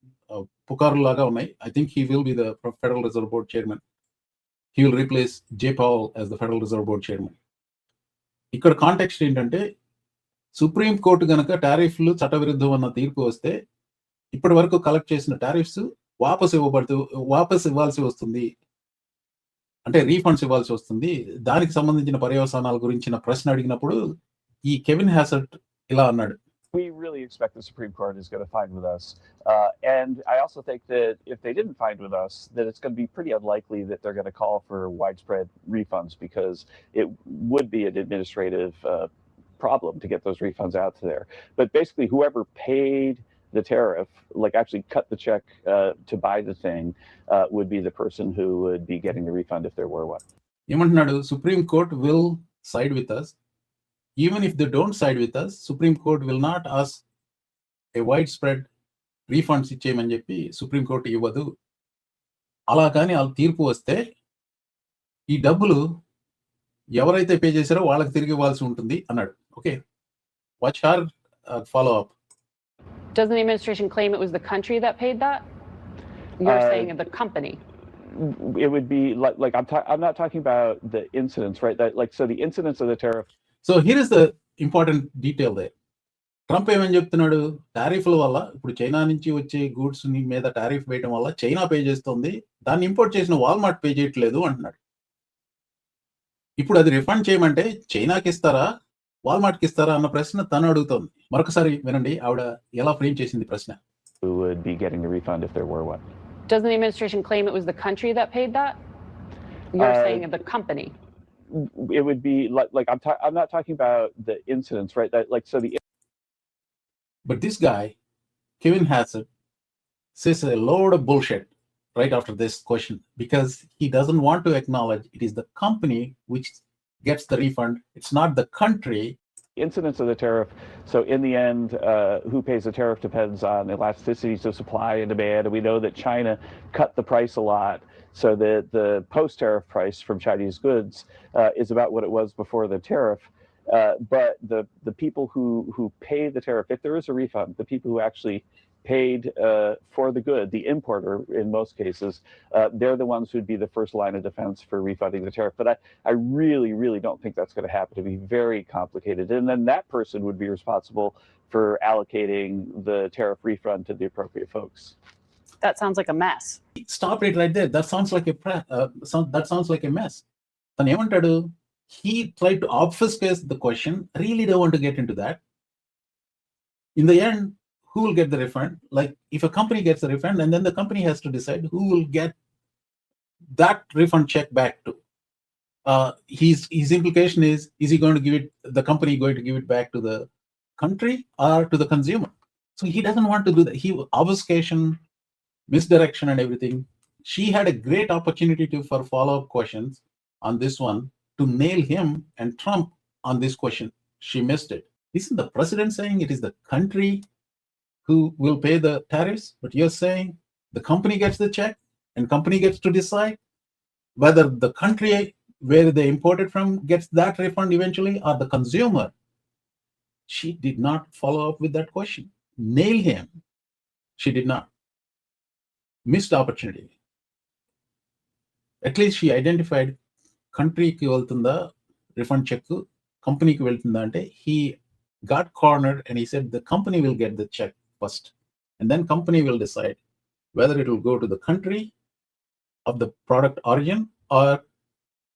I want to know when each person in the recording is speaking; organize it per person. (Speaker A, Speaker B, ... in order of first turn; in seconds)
Speaker A: 0.3-3.8, 4.8-7.4, 8.5-9.6, 10.6-13.6, 14.3-18.5, 19.9-24.0, 24.7-26.4, 50.7-53.3, 54.2-57.0, 58.0-58.7, 59.3-61.5, 62.7-64.0, 65.3-65.8, 67.0-69.8, 70.6-72.1, 83.6-85.7, 86.5-94.8, 96.6-98.7, 99.2-103.8, 117.2-117.9, 118.6-119.3, 120.2-129.2, 166.8-170.2, 170.8-175.4, 177.0-182.3, 183.6-185.0, 185.9-190.3, 190.8-195.0, 195.7-207.2, 208.1-213.4, 214.2-219.1, 220.3-223.3, 224.2-224.7, 226.1-226.9, 228.8-229.9, 230.5-234.8, 235.3-240.0, 240.6-241.9, 242.9-244.6
Speaker B: 26.7-50.2, 76.4-76.9, 78.1-83.3, 104.2-106.0, 109.8-110.2, 111.5-115.8, 129.6-164.9
Speaker C: 73.2-75.4, 76.4-77.6, 106.5-108.8, 109.7-110.9, 165.6-166.6